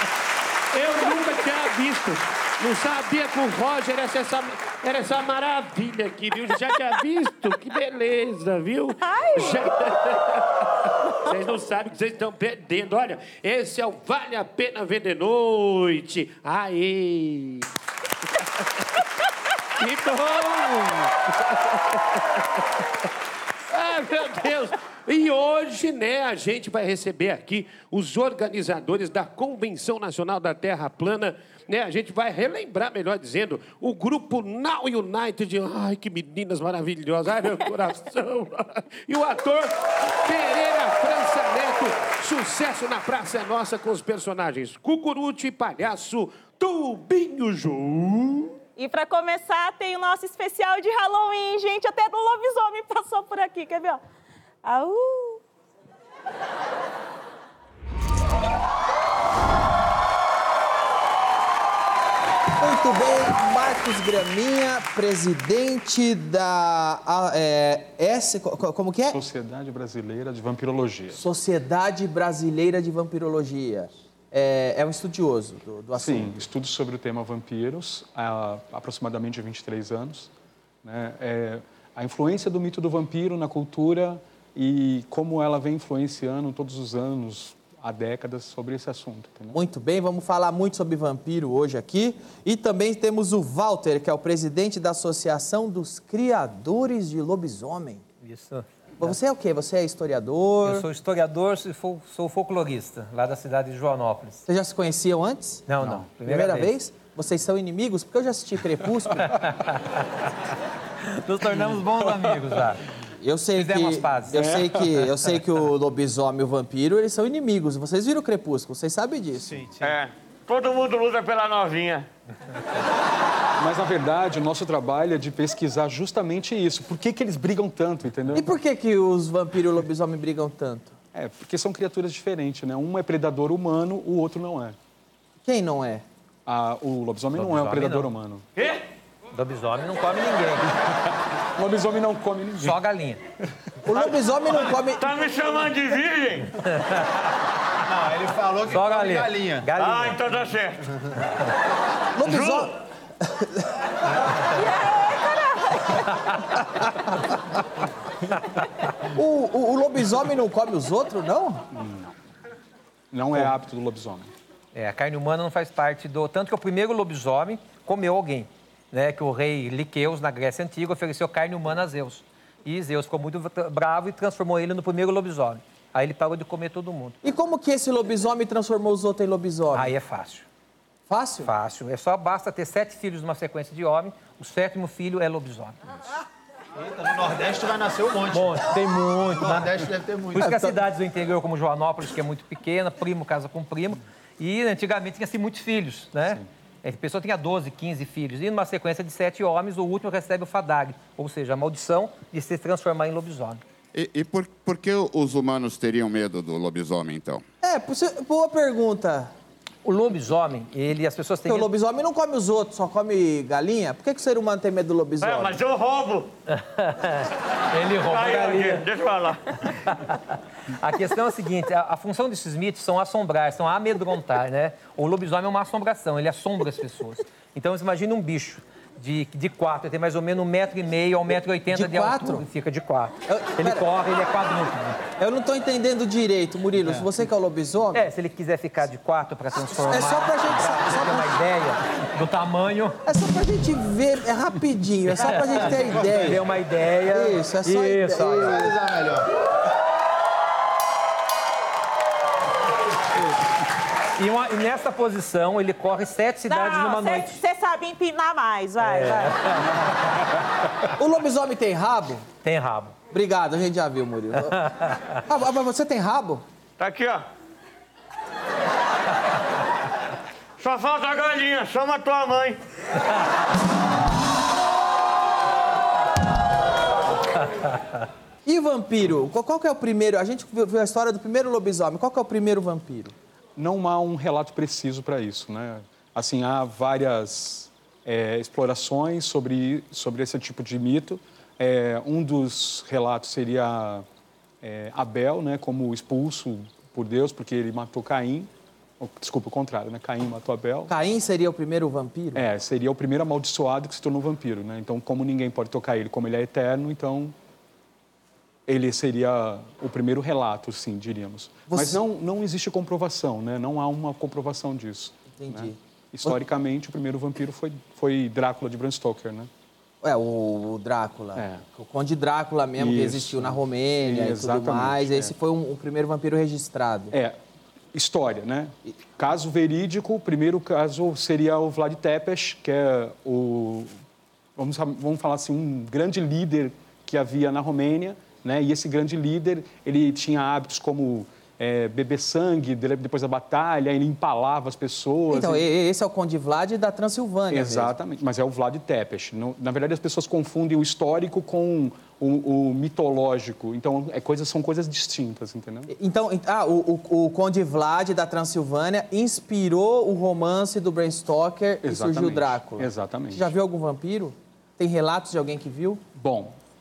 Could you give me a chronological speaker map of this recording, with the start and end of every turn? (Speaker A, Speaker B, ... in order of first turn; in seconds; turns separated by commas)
Speaker A: 0.7-10.6, Speaker B: 9.0-9.7, Speaker A: 11.2-17.7, Speaker A: 19.8-21.1, Speaker A: 23.7-48.5, Speaker B: 48.8-54.0, Speaker B: 54.6-55.4, Speaker C: 62.6-69.2, Speaker D: 69.1-71.2, Speaker C: 71.1-76.3, Speaker D: 76.0-80.3, Speaker D: 80.8-89.5, Speaker C: 89.5-98.0, Speaker E: 98.2-98.6, Speaker C: 99.0-100.9, Speaker E: 100.6-104.4, Speaker C: 104.5-109.3, Speaker E: 105.7-106.7, Speaker E: 109.3-110.0, Speaker E: 111.0-112.8, Speaker C: 113.2-119.6, Speaker E: 113.6-114.4, Speaker D: 114.4-115.0, Speaker F: 119.5-119.9, Speaker G: 119.8-122.1, Speaker D: 123.6-128.4, Speaker C: 128.3-130.9, Speaker D: 131.1-134.7, Speaker C: 135.4-136.0, Speaker D: 136.4-138.4, Speaker E: 137.4-138.1, Speaker G: 138.6-138.8, Speaker E: 139.3-140.7, Speaker D: 141.6-142.8, Speaker E: 142.6-143.2, Speaker C: 143.8-145.1, Speaker G: 144.9-146.5, Speaker F: 147.8-149.7, Speaker E: 148.7-150.2, Speaker G: 149.8-150.8, Speaker C: 152.1-153.7, Speaker G: 152.2-152.7, Speaker B: 154.5-156.1, Speaker C: 159.1-161.6, Speaker D: 161.7-162.1, Speaker D: 163.1-164.3, Speaker E: 164.7-177.2, Speaker C: 177.2-179.9, Speaker E: 179.7-180.4, Speaker C: 181.1-181.5, Speaker E: 181.4-185.8, Speaker F: 186.8-190.5, Speaker E: 188.3-189.7, Speaker E: 190.3-203.6, Speaker C: 190.3-190.8, Speaker H: 203.9-207.4, Speaker C: 207.6-209.3, Speaker E: 209.8-211.7, Speaker C: 211.4-215.6, Speaker G: 215.2-216.3, Speaker E: 216.5-218.9, Speaker G: 218.0-219.4, Speaker E: 219.9-220.2, Speaker E: 220.7-235.0, Speaker C: 231.7-232.5, Speaker C: 233.3-233.9, Speaker C: 235.2-238.1, Speaker E: 237.9-243.0, Speaker C: 239.8-241.3, Speaker C: 243.0-246.4, Speaker E: 245.2-248.6, Speaker F: 245.7-246.3, Speaker C: 247.1-248.7, Speaker F: 248.2-249.3, Speaker E: 254.2-257.4, Speaker B: 256.5-259.5, Speaker E: 258.8-259.5, Speaker C: 261.0-262.2, Speaker E: 262.4-262.9, Speaker C: 263.1-264.6, Speaker C: 265.1-266.4, Speaker G: 266.8-267.2, Speaker G: 270.6-272.6, Speaker C: 278.4-283.1, Speaker D: 283.6-294.0, Speaker D: 294.6-298.5, Speaker D: 299.0-300.9, Speaker C: 300.9-302.4, Speaker D: 302.3-307.3, Speaker D: 308.7-319.5, Speaker C: 311.7-312.0, Speaker C: 315.4-316.4, Speaker C: 320.0-327.1, Speaker D: 321.4-321.6, Speaker D: 322.8-325.3, Speaker D: 327.1-327.4, Speaker D: 327.9-333.9, Speaker D: 334.6-345.6, Speaker C: 345.3-347.9, Speaker D: 347.5-355.9, Speaker C: 355.9-366.0, Speaker D: 361.8-363.5, Speaker D: 366.2-366.5